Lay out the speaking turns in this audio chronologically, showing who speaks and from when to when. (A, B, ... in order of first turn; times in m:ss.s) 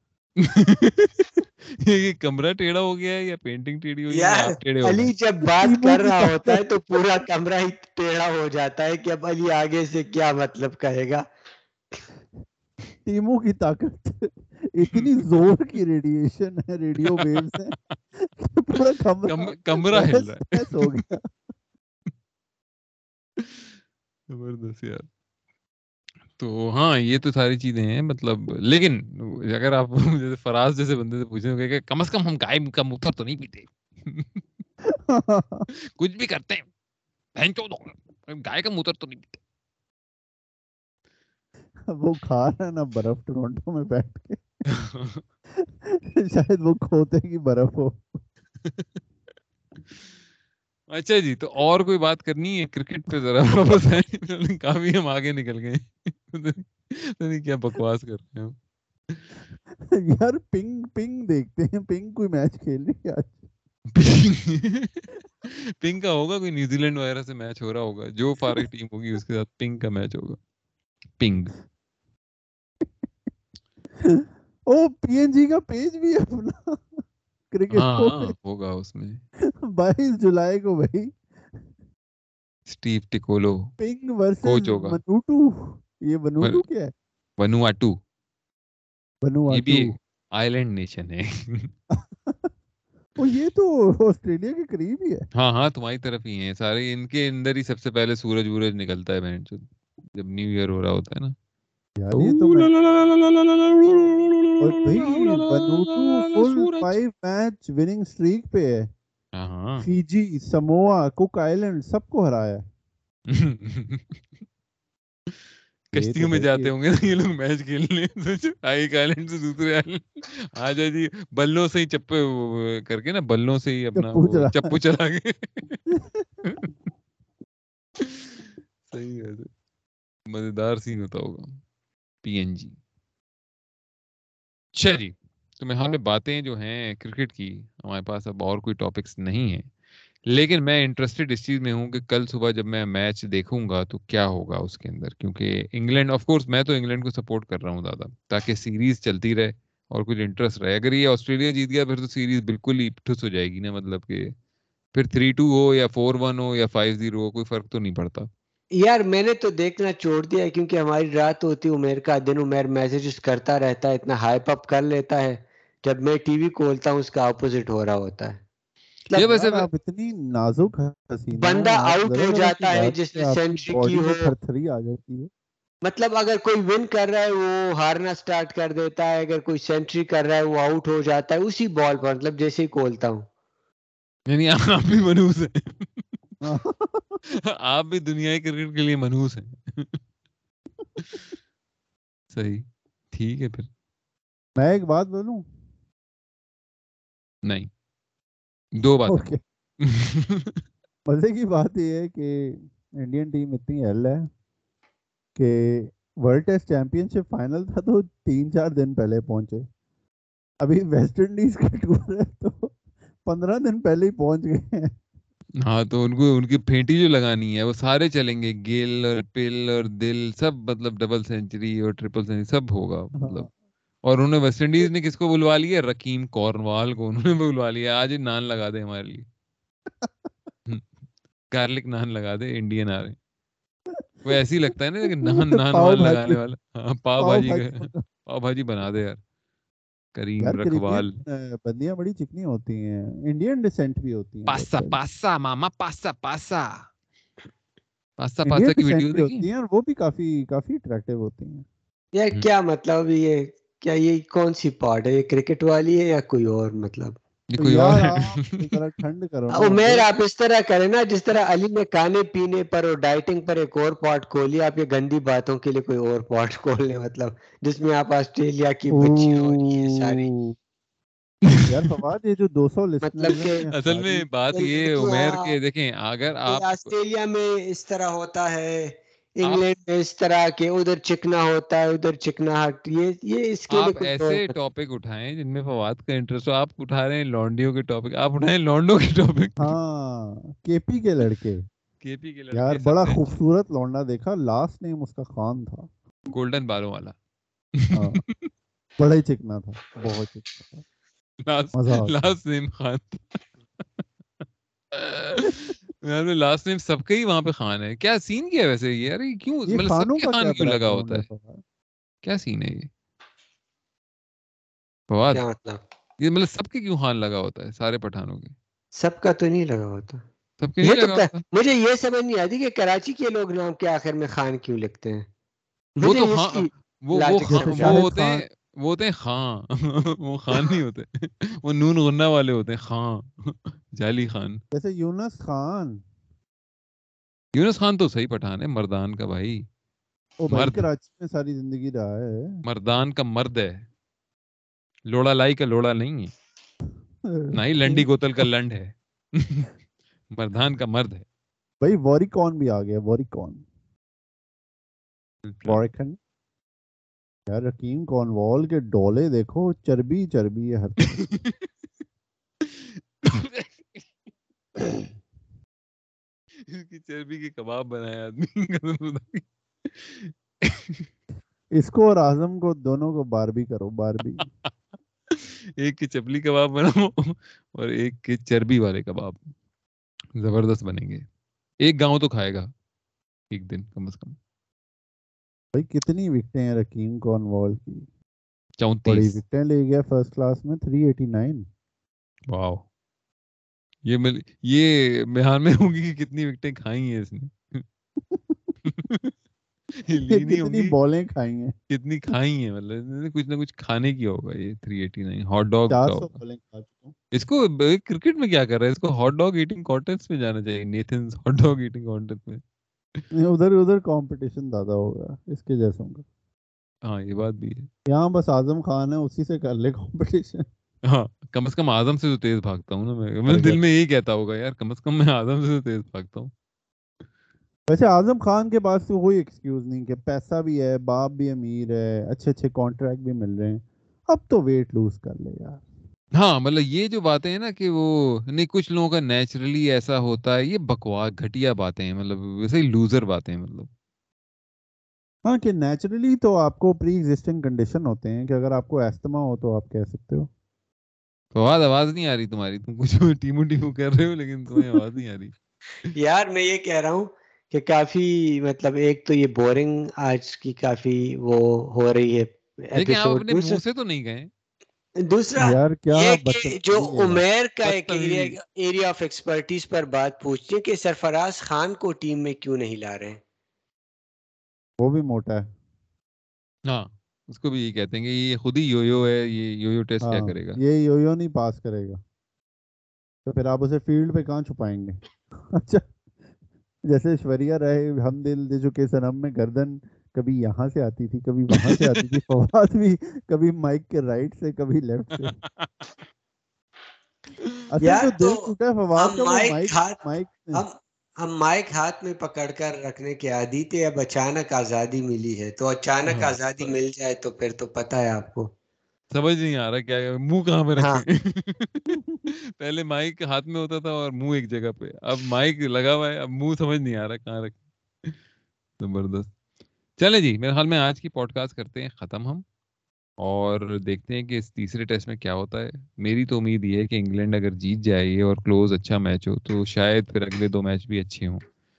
0:00.4-0:05.1 A
0:04.1-0:11.2 B
0:05.6-0:06.6 C
0:13.0-0:21.3 C
0:17.1-0:17.5 A
0:19.3-0:21.0 A
0:23.4-0:23.7 A
0:24.3-0:25.1 A
0:26.4-0:34.4 A
0:34.9-0:35.7 C
0:36.0-0:36.7 A
0:37.4-0:39.4 A
0:41.9-0:44.4 C
0:44.7-0:45.2 A
0:45.6-0:48.2 C
0:50.9-0:58.6 A
0:59.9-1:03.4 C
1:04.0-1:10.4 A
1:11.2-1:11.6 A
1:14.0-1:18.4 C
1:17.7-1:19.2 A
1:19.6-1:21.2 C
1:22.7-1:23.7 A
1:23.8-1:26.9 C
1:24.4-1:25.0 A
1:27.4-1:28.0 A
1:29.2-1:30.0 C
1:29.5-1:31.7 A
1:31.9-1:32.5 C
1:33.2-1:35.3 C
1:35.4-1:41.4 A
1:42.0-1:42.7 C
1:42.1-1:47.0 A
1:44.6-1:48.9 C
1:49.3-1:49.9 A
1:49.8-1:52.6 C
1:53.3-1:54.2 A
1:55.9-2:05.8 A
1:55.9-1:56.7 C
2:04.0-2:04.7 C
2:06.4-2:06.7 A
2:08.0-2:09.5 A
2:10.3-2:11.6 A
2:12.2-2:12.8 A
2:14.7-2:19.7 A
2:20.3-2:34.4 A
2:34.9-2:38.3 A
2:38.7-2:48.4 B
2:49.1-2:49.7 A
2:49.2-2:55.3 C
2:51.4-2:54.3 B
2:55.8-3:03.3 B
3:04.3-3:06.0 A
3:06.4-3:07.2 C
3:07.3-3:10.0 A
3:11.0-3:11.2 A
3:12.3-3:13.7 A
3:14.6-3:15.4 C
3:17.4-3:17.7 A
3:18.8-3:19.3 A
3:19.1-3:19.4 C
3:19.8-3:20.5 A
3:21.1-3:24.3 C
3:25.4-3:29.7 C
3:30.6-3:34.9 C
3:35.6-3:43.5 A
3:43.2-3:43.5 C
3:44.0-3:49.3 A
3:50.0-3:50.3 C
3:50.7-3:50.9 A
3:51.5-3:53.2 A
3:53.9-3:54.4 C
3:54.3-3:59.2 A
3:55.1-3:56.4 C
3:57.2-3:58.0 C
4:00.1-4:01.2 A
4:00.4-4:05.0 C
4:04.5-4:06.8 A
4:08.2-4:09.5 A
4:08.4-4:11.7 C
4:12.1-4:17.2 B
4:17.5-4:18.4 A
4:17.6-4:20.0 C
4:19.5-4:30.3 B
4:28.9-4:30.6 C
4:31.6-4:34.3 C
4:33.0-4:33.6 B
4:33.7-4:36.9 A
4:34.5-4:35.6 B
4:36.5-4:44.5 B
4:43.7-4:49.8 A
4:49.6-4:51.7 C
4:52.0-4:53.4 A
4:52.5-4:55.9 C
4:56.3-4:57.2 A
4:57.8-4:58.5 A
4:57.9-4:58.2 C
4:59.0-5:00.8 C
5:01.4-5:04.0 A
5:01.7-5:02.2 C
5:04.9-5:11.3 A
5:09.7-5:11.6 C
5:12.2-5:12.9 A
5:15.1-5:15.4 A
5:15.3-5:15.8 B
5:16.2-5:18.6 A
5:18.9-5:20.2 B
5:20.6-5:21.4 A
5:20.8-5:25.3 B
5:26.0-5:28.0 B
5:26.0-5:34.6 A
5:27.5-5:28.4 C
5:34.7-5:36.0 C
5:37.5-5:39.6 A
5:40.4-5:42.6 C
5:40.5-5:40.9 A
5:42.6-5:43.9 A
5:45.1-5:46.3 A
5:47.2-5:48.1 C
5:47.5-5:49.7 A
5:50.3-5:51.2 A
5:51.8-5:53.6 C
5:55.4-5:55.8 A
5:55.6-5:56.2 C
5:57.5-6:01.1 C
6:01.2-6:01.7 A
6:02.6-6:04.1 A
6:06.7-6:11.0 A
6:11.7-6:14.5 C
6:15.3-6:19.5 A
6:20.4-6:21.2 A
6:21.8-6:22.7 A
6:23.5-6:24.4 A
6:25.7-6:28.1 C
6:28.8-6:29.4 A
6:29.1-6:31.7 C
6:32.5-6:32.9 A
6:34.0-6:37.8 A
6:38.3-6:38.8 C
6:38.8-6:39.3 A
6:40.0-6:41.0 A
6:40.3-6:41.7 C
6:41.9-6:46.4 A
6:45.9-6:47.1 C
6:47.3-6:52.6 A
6:53.3-6:56.2 C
6:57.0-6:57.9 A
6:58.1-7:00.6 C
7:01.1-7:06.5 A
7:03.5-7:03.8 C
7:07.9-7:15.8 C
7:16.4-7:23.9 A
7:25.4-7:30.5 C
7:31.5-7:36.1 A
7:36.1-7:43.8 B
7:42.9-7:44.5 A
7:45.2-7:53.4 B
7:45.6-7:47.4 C
7:47.8-7:48.6 A
7:55.0-7:55.7 C
7:56.9-8:00.8 A
8:00.2-8:02.2 C
8:03.4-8:06.1 C
8:07.1-8:15.6 C
8:11.8-8:12.2 A
8:15.5-8:16.1 A
8:17.9-8:20.8 C
8:18.0-8:20.2 B
8:20.7-8:28.7 B
8:26.3-8:27.0 A
8:29.3-8:38.4 A
8:31.0-8:31.2 B
8:39.0-8:39.5 A
8:40.2-8:42.6 A
8:43.4-8:51.6 A